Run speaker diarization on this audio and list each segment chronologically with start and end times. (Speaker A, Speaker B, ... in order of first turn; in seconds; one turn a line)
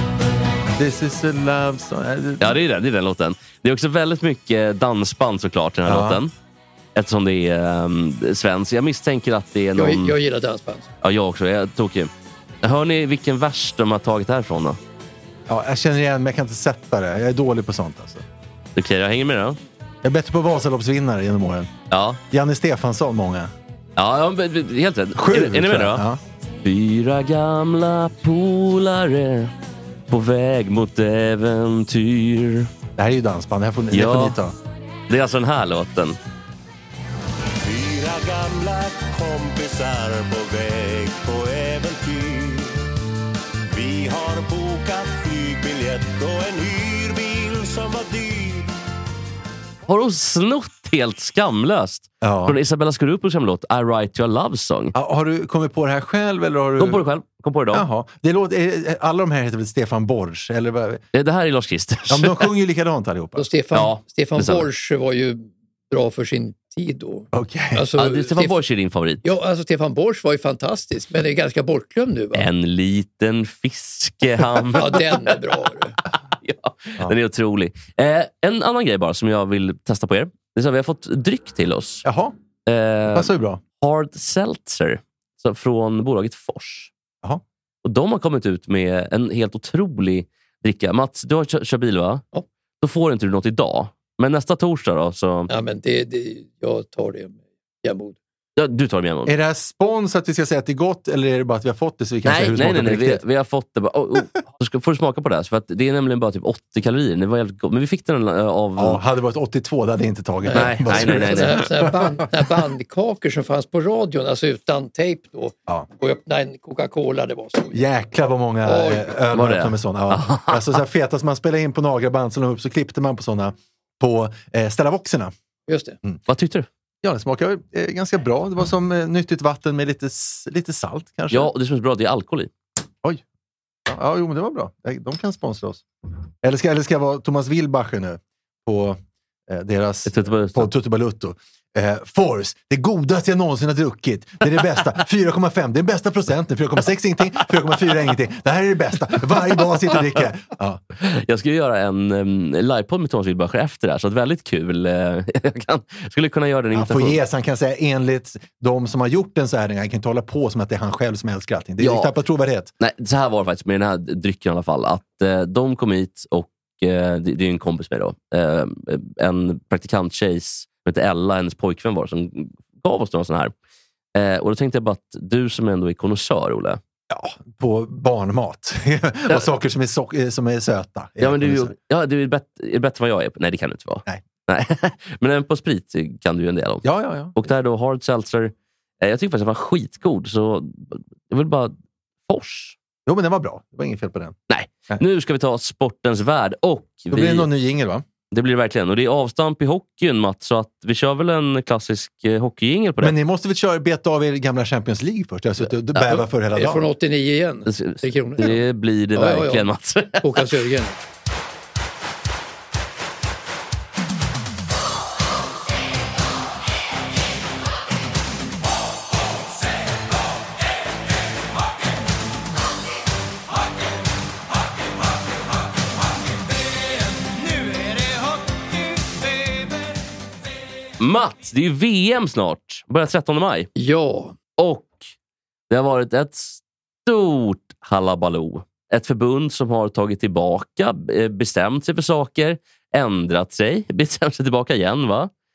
Speaker A: 0.7-2.6
Speaker B: 2.4-6.3
Speaker A: 5.8-6.2
Speaker B: 6.9-10.2
Speaker C: 9.8-10.9
Speaker B: 11.0-12.1
Speaker B: 12.6-14.8
Speaker A: 15.5-18.2
Speaker B: 18.8-19.6
Speaker A: 20.0-21.7
Speaker B: 21.9-22.2
Speaker A: 22.3-23.5
Speaker B: 23.9-26.0
Speaker A: 25.2-26.2
Speaker B: 26.6-29.5
Speaker B: 30.1-32.7
Speaker A: 33.0-34.5
Speaker B: 33.9-34.4
Speaker B: 35.1-36.2
Speaker D: 37.6-42.8
Speaker D: 43.7-48.7
Speaker B: 49.9-54.9
Speaker A: 52.2-52.6
Speaker A: 54.9-57.0
Speaker B: 56.8-57.8
Speaker A: 57.7-61.0
Speaker B: 61.1-62.5
Speaker A: 62.1-63.5
Speaker C: 63.4-68.5
Speaker B: 63.7-64.7
Speaker A: 67.3-67.9
Speaker B: 68.0-69.3
Speaker C: 69.2-72.5
Speaker B: 72.3-75.0
Speaker C: 74.7-76.0
Speaker B: 76.4-82.0
Speaker A: 82.0-82.3
Speaker B: 82.7-86.9
Speaker A: 83.1-83.6
Speaker B: 87.8-92.2
Speaker B: 92.8-95.5
Speaker C: 95.5-98.2
Speaker B: 98.6-99.3
Speaker A: 99.2-103.2
Speaker B: 102.2-109.0
Speaker A: 108.8-112.5
Speaker C: 110.5-117.8
Speaker B: 110.5-111.7
Speaker A: 117.7-125.3
Speaker C: 118.6-119.2
Speaker B: 119.3-120.8
Speaker C: 125.7-126.0
Speaker B: 126.3-126.7
Speaker A: 127.0-131.5
Speaker B: 131.3-132.5
Speaker A: 133.9-135.8
Speaker A: 136.4-150.8
Speaker B: 140.1-140.7
Speaker B: 151.0-157.2
Speaker A: 156.7-162.7
Speaker B: 161.8-162.1
Speaker B: 162.8-173.5
Speaker B: 174.1-176.8
Speaker A: 177.1-181.7
Speaker B: 181.2-191.7
Speaker A: 186.8-187.3
Speaker B: 192.3-192.8
Speaker A: 193.1-194.3
Speaker B: 194.5-197.5
Speaker A: 197.1-198.0
Speaker B: 198.3-203.2
Speaker A: 203.0-206.8
Speaker C: 206.5-208.6
Speaker B: 207.7-210.5
Speaker C: 209.1-209.7
Speaker C: 210.2-211.0
Speaker B: 231.0-233.7
Speaker C: 233.8-234.3
Speaker B: 234.6-235.1
Speaker B: 235.7-245.3